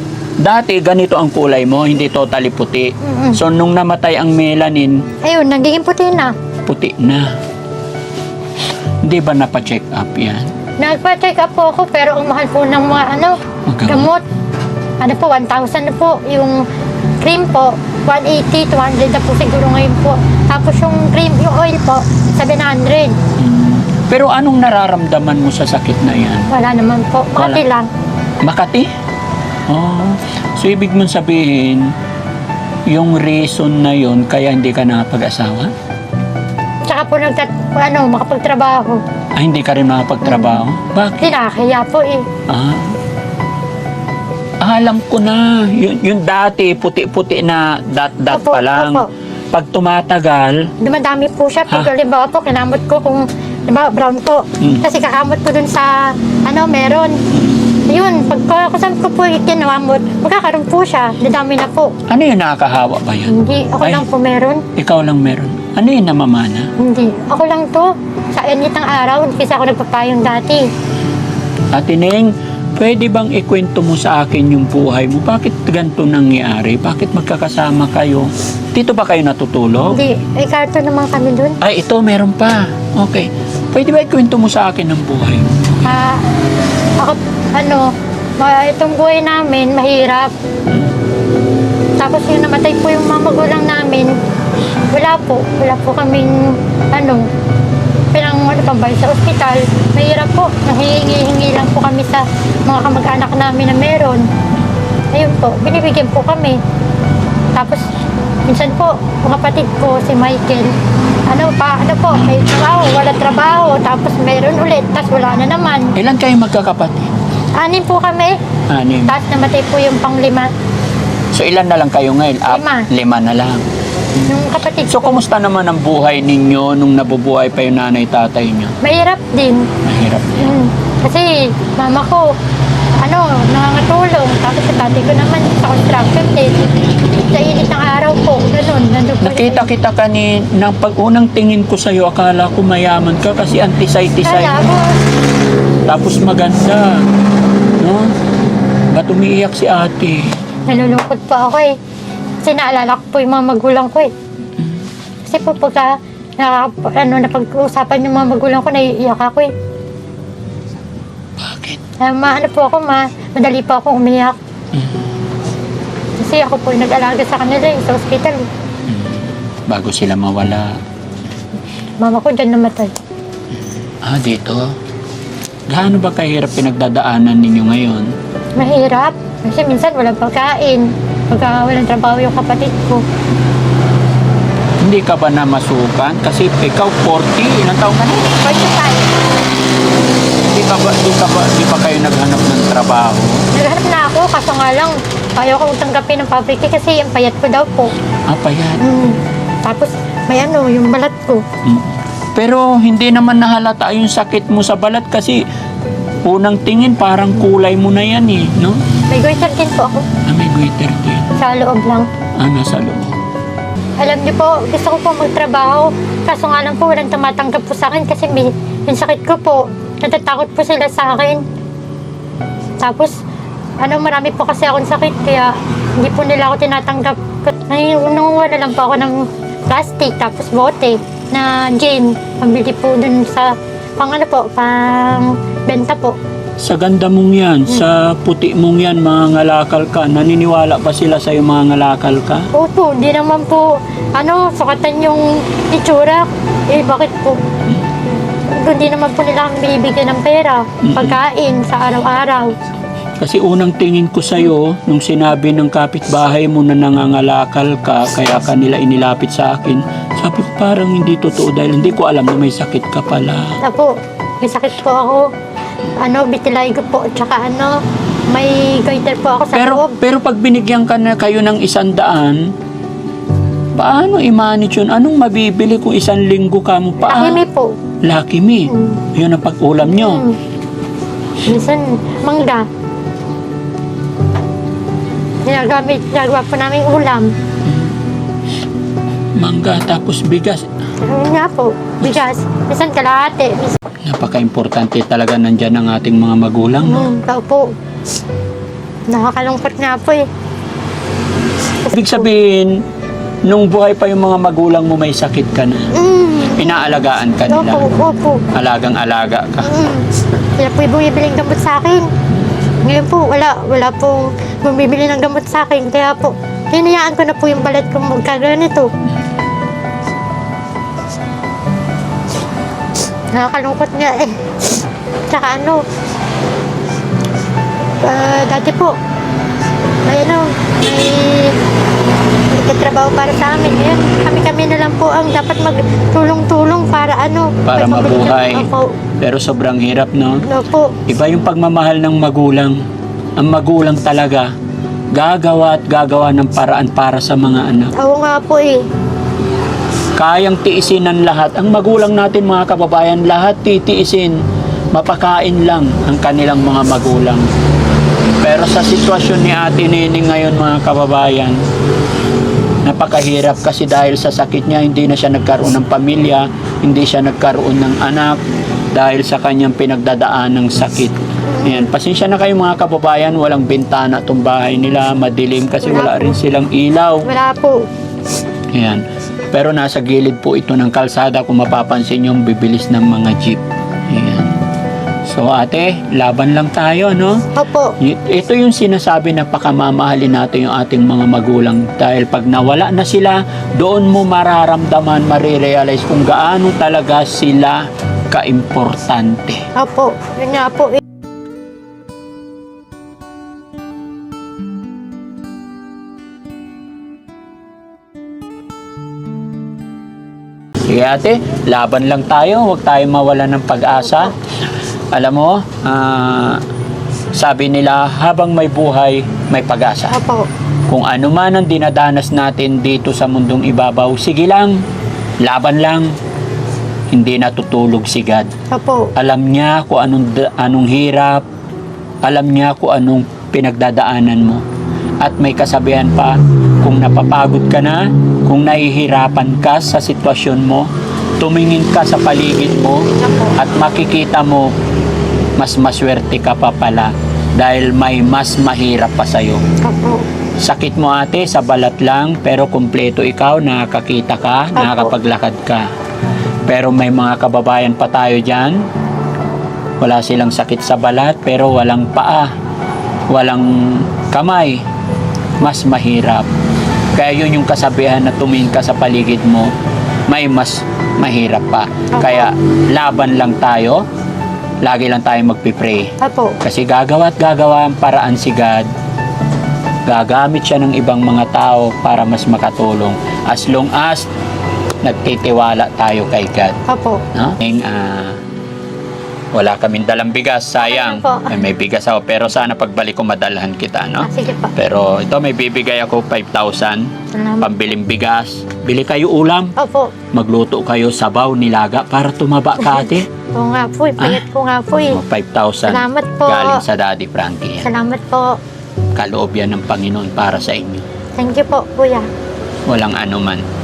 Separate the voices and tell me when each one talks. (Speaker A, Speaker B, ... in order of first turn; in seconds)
Speaker A: 0.4-5.0, 6.6-7.3, 9.0-10.5, 13.7-14.1, 23.4-26.5, 27.4-27.6, 28.4-28.9, 29.7-31.9, 32.9-35.7, 39.3-41.3, 42.5-42.9, 44.6-50.7, 54.6-54.8, 57.3-57.7, 62.1-64.0, 64.7-66.7, 71.7-80.0, 81.6-86.0, 115.9-117.1, 118.7-119.1, 121.3-123.6, 124.9-128.7, 129.8-130.5, 139.2-144.7, 145.8-147.0, 147.8-148.1, 148.9-150.3, 161.4-161.8, 164.7-165.1, 168.9-170.8, 174.0-174.7, 175.7-178.1, 184.8-188.3, 190.4-193.4, 198.3-198.8, 201.6-205.4, 206.2-208.8, 210.2-211.3, 212.3-213.2, 236.6-242.5, 250.8-251.2, 253.2-263.6, 269.5-272.5, 273.8-277.4, 278.0-280.2, 287.6-287.9, 289.4-290.6, 294.0-297.1, 301.9-302.8, 303.4-305.9, 306.6-307.9, 308.5-309.7, 337.6-338.7, 339.2-340.4, 341.1-342.8, 343.4-344.5, 345.1-347.9, 350.1-354.4, 354.9-357.4, 358.4-361.6, 362.8-368.4, 368.9-377.3, 378.7-384.6, 385.3-387.4, 388.0-399.6, 410.9-414.3, 415.1-416.6, 417.3-420.2, 420.9-424.8, 425.4-426.1, 427.1-428.5, 429.1-431.4, 432.2-434.6, 435.2-444.7, 445.6-449.6, 450.6-455.9, 456.6-458.8, 460.0-462.5, 463.3-464.8, 465.6-466.5, 467.1-469.7, 470.3-474.0, 474.8-476.1, 476.6-478.9, 480.1-484.3, 485.0-486.8, 487.3-488.4, 489.5-499.7, 500.3-503.3, 505.1-507.9, 509.1-511.0, 512.9-513.6
Speaker B: 3.0-3.4, 5.2-6.3, 10.8-14.2, 15.0-16.6, 17.2-23.1, 26.5-27.9, 36.9-39.0, 40.2-40.6, 41.2-42.2, 48.3-49.1, 50.8-57.2, 57.9-61.9, 63.3-64.6, 66.8-70.7, 79.9-81.6, 85.8-86.2, 87.0-90.3, 92.0-94.1, 94.9-97.3, 98.1-104.3, 105.1-106.6, 107.5-107.8, 108.5-110.7, 111.3-115.9, 117.6-118.4, 119.1-120.5, 122.5-122.9, 124.3-125.2, 128.8-129.7, 130.4-132.3, 133.0-136.6, 137.3-139.7, 144.2-145.0, 150.7-151.7, 152.4-154.1, 155.2-159.5, 162.0-164.4, 166.2-168.5, 172.0-173.0, 178.6-183.0, 188.4-189.1, 193.5-197.9, 198.8-201.4, 209.1-210.1, 211.4-212.1, 214.0-221.4, 222.8-223.2, 223.8-236.2, 242.5-247.4, 248.3-252.5, 263.6-265.2, 266.0-267.8, 268.3-269.9, 277.0-277.7, 278.7-279.0, 279.8-280.4, 281.4-282.6, 285.4-287.3, 291.0-293.8, 296.8-297.7, 299.1-300.2, 301.8-302.3, 305.9-308.4, 309.6-310.1, 310.6-312.1, 312.8-318.9, 323.3-325.8, 328.0-328.9, 330.1-331.6, 332.5-338.9, 340.4-341.0, 348.0-348.8, 371.5-371.9, 375.8-376.4, 377.2-377.8, 387.5-387.9, 399.7-401.0, 420.1-420.5, 428.7-429.1, 443.2-443.6, 449.8-450.2, 454.8-455.1, 472.1-472.5, 476.2-476.6, 486.9-487.2, 490.8-491.6, 494.2-494.7, 497.3-497.9, 499.8-500.1, 502.8-505.2, 505.9-506.8, 507.8-508.6, 511.4-512.3